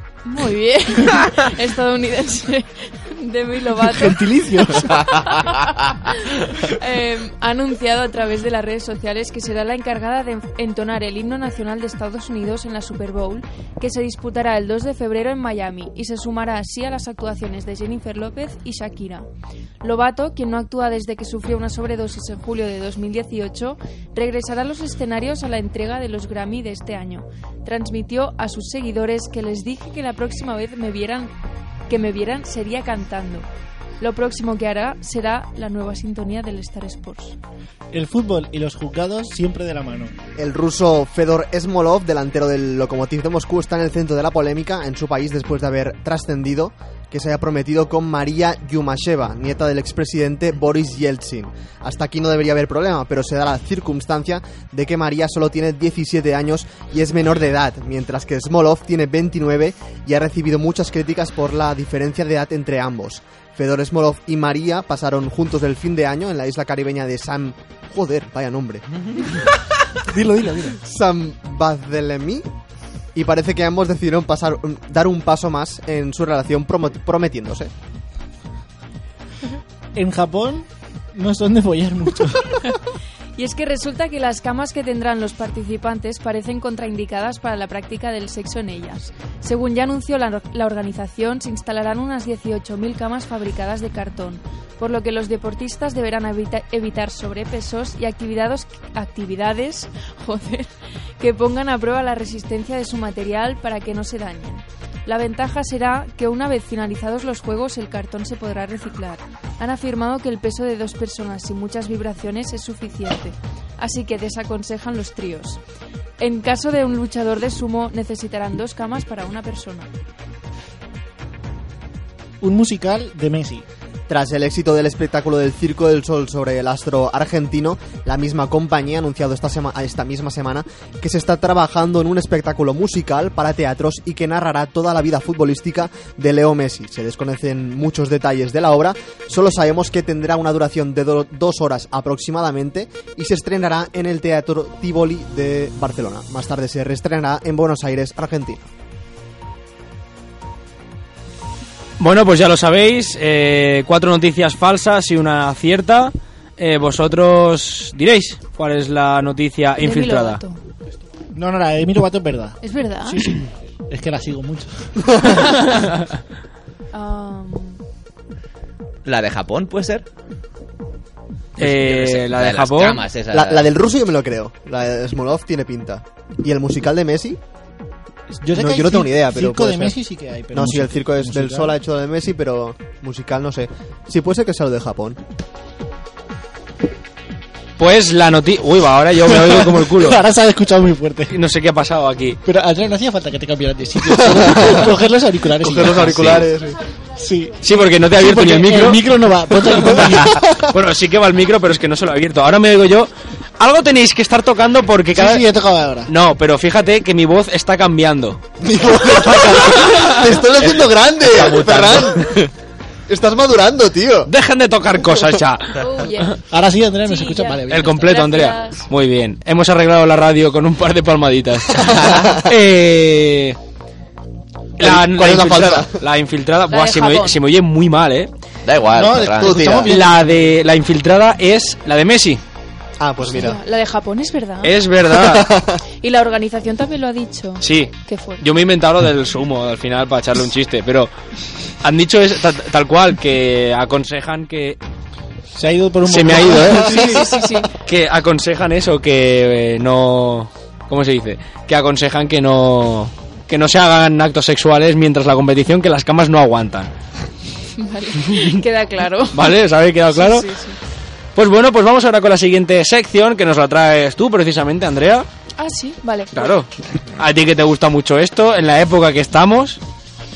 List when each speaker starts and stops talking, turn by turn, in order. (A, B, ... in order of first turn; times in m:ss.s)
0:00.2-0:19.3 A
0:03.8-0:05.1 B
0:19.8-0:31.3 A
0:31.9-0:33.5 A
0:34.0-0:37.4 A
0:37.9-0:40.1 B
0:40.4-1:08.8 C
1:10.0-1:10.8 B
1:10.8-1:12.5 C
1:13.1-1:17.7 C
1:19.9-1:22.6 B
1:23.4-1:55.6 A
1:56.2-1:59.9 A
2:02.4-2:03.6 B
2:04.1-2:28.7 C
2:32.0-2:40.4 D
2:39.8-2:40.6 A
2:41.3-2:45.0 B
2:42.6-2:43.4 A
2:46.9-2:47.8 A
2:49.0-2:50.0 E
2:51.6-2:53.0 D
2:51.6-2:53.7 E
2:53.3-2:57.4 C
2:58.3-3:01.8 B
2:58.5-3:00.0 C
3:00.5-3:05.2 C
3:07.8-3:10.2 D
3:09.3-3:11.3 B
3:11.3-3:12.4 D
3:12.4-3:16.4 B
3:14.2-3:14.9 C
3:15.6-3:16.8 C
3:16.0-3:16.4 E
3:17.2-3:20.6 B
3:17.6-3:19.0 D
3:19.9-3:25.4 D
3:25.1-3:26.1 B
3:26.1-3:28.4 D
3:28.6-3:32.5 C
3:29.0-3:32.3 D
3:33.1-3:34.3 C
3:34.3-3:36.3 D
3:35.8-3:36.4 A
3:36.5-3:38.1 B
3:37.0-3:38.9 A
3:37.7-3:43.6 D
3:41.8-3:42.4 C
3:44.8-3:48.3 D
3:44.8-3:46.0 C
3:46.7-3:47.4 A
3:48.6-3:49.8 E
3:48.9-3:50.4 B
3:49.4-3:49.9 C
3:49.9-3:52.4 D
3:53.0-3:53.6 C
3:53.3-3:54.8 A
3:54.6-3:55.5 D
3:55.1-3:55.8 C
3:56.0-3:58.4 A
3:57.6-4:01.1 D
4:01.8-4:04.8 D
4:05.5-4:07.3 B
4:06.0-4:07.1 D
4:07.0-4:07.7 A
4:07.8-4:16.9 D
4:17.8-4:19.6 A
4:19.3-4:20.5 D
4:20.1-4:20.8 A
4:21.4-4:25.3 D
4:25.6-4:26.5 A
4:26.3-4:29.8 D